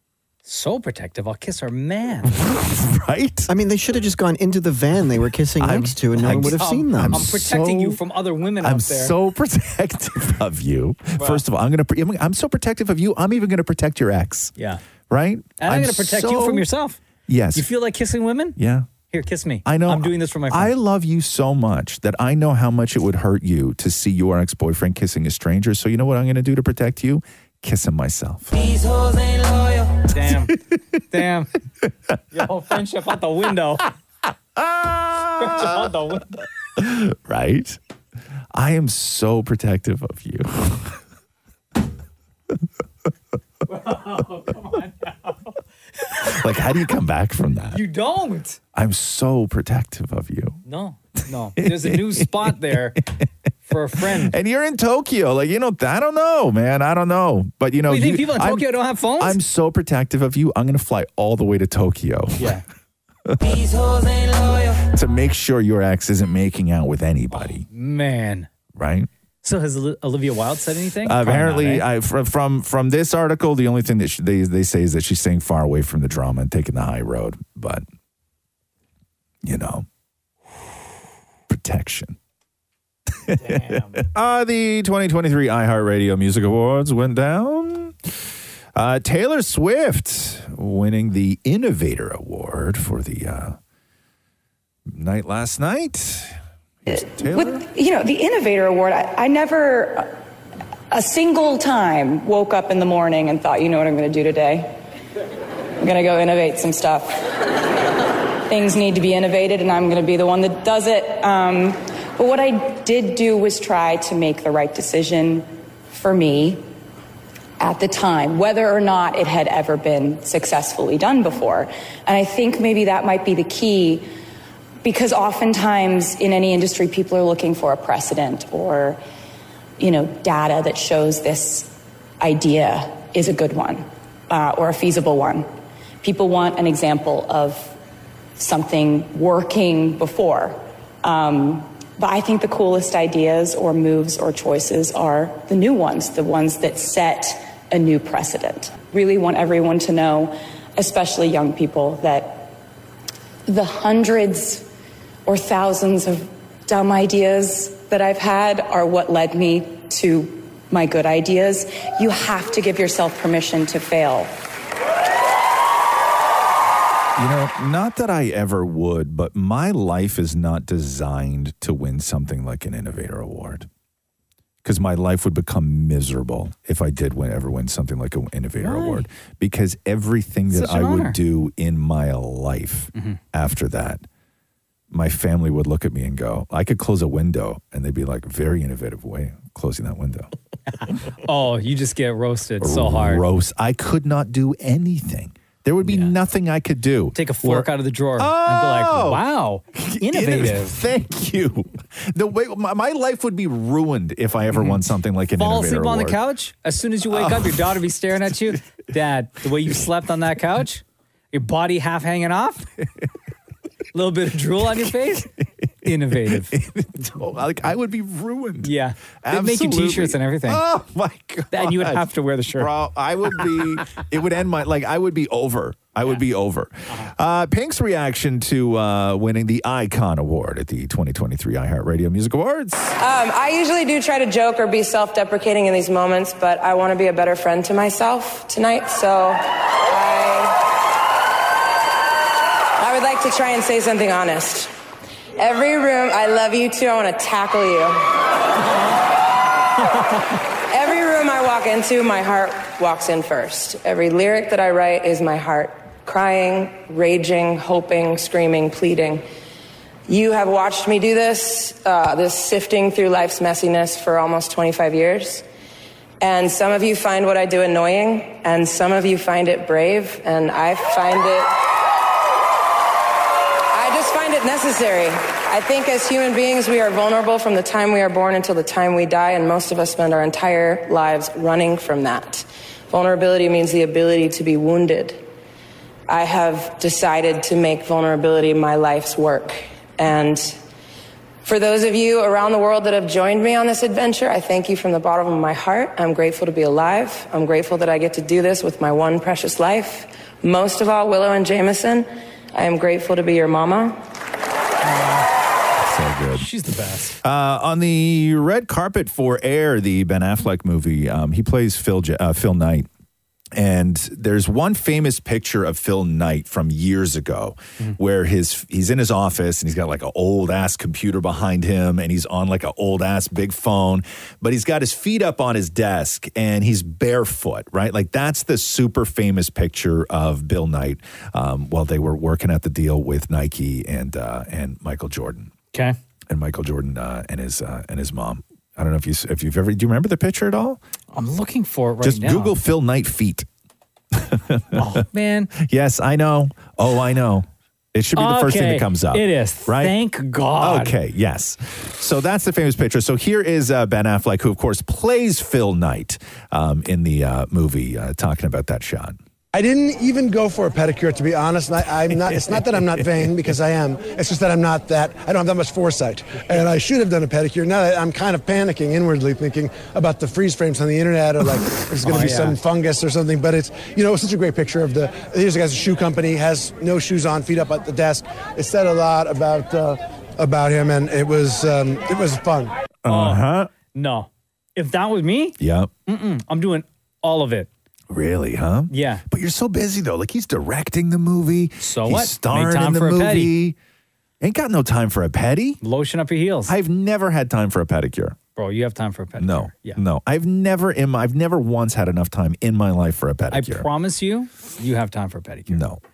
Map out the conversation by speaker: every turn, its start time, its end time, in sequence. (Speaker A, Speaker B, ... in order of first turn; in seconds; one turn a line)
Speaker A: 0.5-2.3
Speaker B: 2.2-3.5
Speaker C: 3.5-7.3
Speaker B: 5.6-8.0
Speaker A: 6.3-9.1
Speaker B: 8.6-14.5
Speaker A: 11.2-11.4
Speaker B: 15.1-16.6
Speaker A: 15.6-17.0
Speaker B: 17.3-17.6
Speaker A: 17.5-18.6
Speaker B: 18.6-18.9
Speaker A: 19.1-20.7
Speaker B: 19.6-28.7
Speaker A: 30.1-30.5
Speaker A: 31.1-31.5
Speaker A: 32.3-33.9
Speaker B: 34.5-35.9
Speaker A: 35.4-36.4
Speaker B: 36.8-37.8
Speaker B: 38.5-41.0
Speaker A: 43.7-45.5
Speaker B: 46.2-47.8
Speaker A: 47.7-48.6
Speaker B: 48.7-50.6
Speaker A: 50.6-53.0
Speaker B: 51.6-53.0
Speaker A: 53.7-54.4
Speaker B: 54.0-62.6
Speaker A: 57.9-59.4
Speaker B: 63.3-63.6
Speaker B: 64.6-67.6
Speaker A: 67.3-68.5
Speaker B: 68.7-69.1
Speaker A: 69.4-71.8
Speaker B: 71.0-77.8
Speaker B: 79.4-79.8
Speaker B: 81.5-82.2
Speaker B: 83.3-88.0
Speaker A: 83.4-84.0
Speaker B: 88.8-93.6
Speaker B: 94.9-96.3
Speaker B: 96.8-97.6
Speaker D: 96.9-100.2
Speaker D: 100.9-104.8
Speaker D: 105.8-107.2
Speaker D: 108.5-116.7
Speaker D: 117.6-124.1
Speaker D: 124.8-129.0
Speaker D: 129.8-135.5
Speaker D: 136.0-137.8
Speaker D: 138.4-152.5
Speaker D: 153.5-154.7
Speaker D: 155.2-164.3
Speaker B: 167.2-173.7
Speaker B: 174.6-184.0
Speaker A: 178.6-179.1
Speaker A: 180.5-181.2
Speaker A: 182.9-183.2
Speaker B: 184.9-190.3
Speaker A: 190.7-193.2
Speaker B: 192.6-206.2
Speaker A: 195.8-196.1
Speaker A: 197.1-200.8
Speaker A: 204.5-204.8
Speaker A: 205.4-212.7
Speaker B: 207.1-207.7
Speaker A: 213.9-215.3
Speaker A: 215.8-216.5
Speaker B: 216.3-232.9
Speaker A: 218.6-220.6
Speaker A: 221.5-222.7
Speaker E: 233.0-240.6
Speaker E: 242.8-244.7
Speaker E: 245.4-248.0
Speaker E: 250.7-259.2
Speaker E: 260.1-265.4
Speaker E: 266.2-271.5
Speaker E: 273.7-285.2
Speaker E: 286.1-290.6
Speaker E: 291.4-304.0
Speaker A: 304.8-305.3
Speaker B: 305.8-306.5
Speaker A: 306.4-307.2
Speaker B: 307.2-312.9
Speaker B: 313.5-335.5
Speaker B: 336.3-340.8
Speaker A: 341.1-342.5
Speaker B: 342.0-343.5
Speaker B: 344.1-345.0
Speaker A: 344.7-345.5
Speaker B: 345.5-349.9
Speaker A: 348.1-350.9
Speaker B: 350.6-359.2
Speaker F: 359.5-382.7
Speaker B: 362.1-363.3
Speaker A: 372.0-372.6
Speaker B: 383.0-383.7
Speaker A: 383.1-385.6
Speaker B: 385.6-385.9
Speaker A: 386.1-387.7
Speaker B: 388.1-393.8
Speaker A: 388.9-389.2
Speaker A: 391.8-393.5
Speaker B: 394.4-395.8
Speaker A: 395.8-396.8
Speaker B: 396.7-398.4
Speaker A: 398.6-400.0
Speaker B: 399.4-403.9
Speaker A: 403.5-405.8
Speaker B: 405.7-406.0